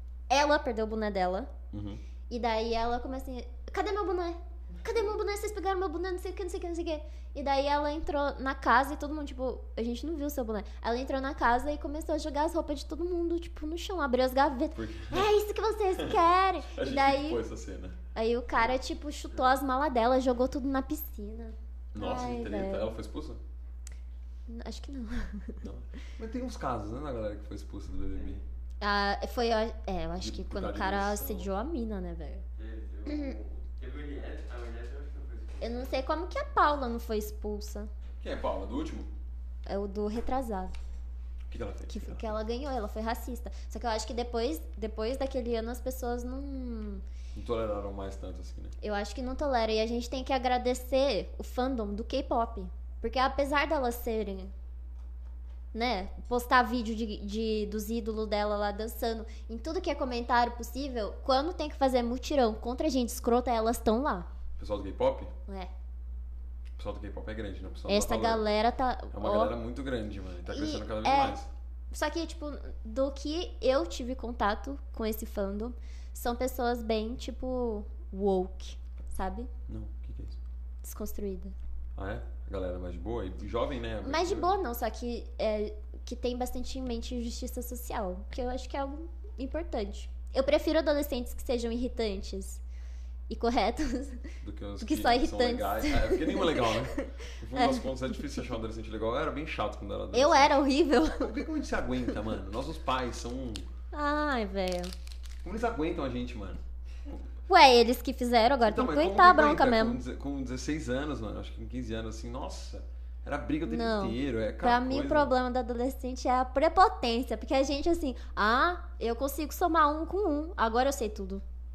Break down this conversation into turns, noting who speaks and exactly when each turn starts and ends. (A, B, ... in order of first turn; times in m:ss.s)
0:00.3-0:01.5 A
0:01.7-0:02.0 B
0:02.3-0:17.4 A
0:14.8-0:15.3 B
0:16.0-0:18.0 B
0:18.1-0:23.0 A
0:21.9-0:23.4 B
0:24.5-0:25.6 A
0:25.6-0:28.4 B
0:28.1-0:28.4 C
0:28.8-0:32.4 A
0:30.2-0:31.5 B
0:32.6-0:36.0 C
0:33.1-0:33.4 A
0:35.6-0:37.9 A
0:38.2-0:39.1 B
0:39.7-0:40.8 A
0:41.5-0:42.4 B
0:41.9-0:47.0 A
0:47.3-0:48.8 B
0:48.8-0:54.5 A
0:55.7-1:04.3 A
1:04.6-1:05.3 B
1:06.8-1:08.4 B
1:07.9-1:09.5 A
1:09.1-1:11.5 B
1:10.5-1:11.4 A
1:11.9-1:19.5 A
1:19.7-1:20.4 B
1:20.8-1:21.5 A
1:22.0-1:24.5 B
1:24.0-1:32.6 A
1:33.3-1:37.9 A
1:34.4-1:40.6 B
1:40.1-1:41.3 A
1:41.1-1:43.7 B
1:43.9-1:44.9 A
1:45.4-1:47.2 B
1:47.5-1:50.0 A
1:48.6-1:55.3 B
1:53.7-2:01.4 A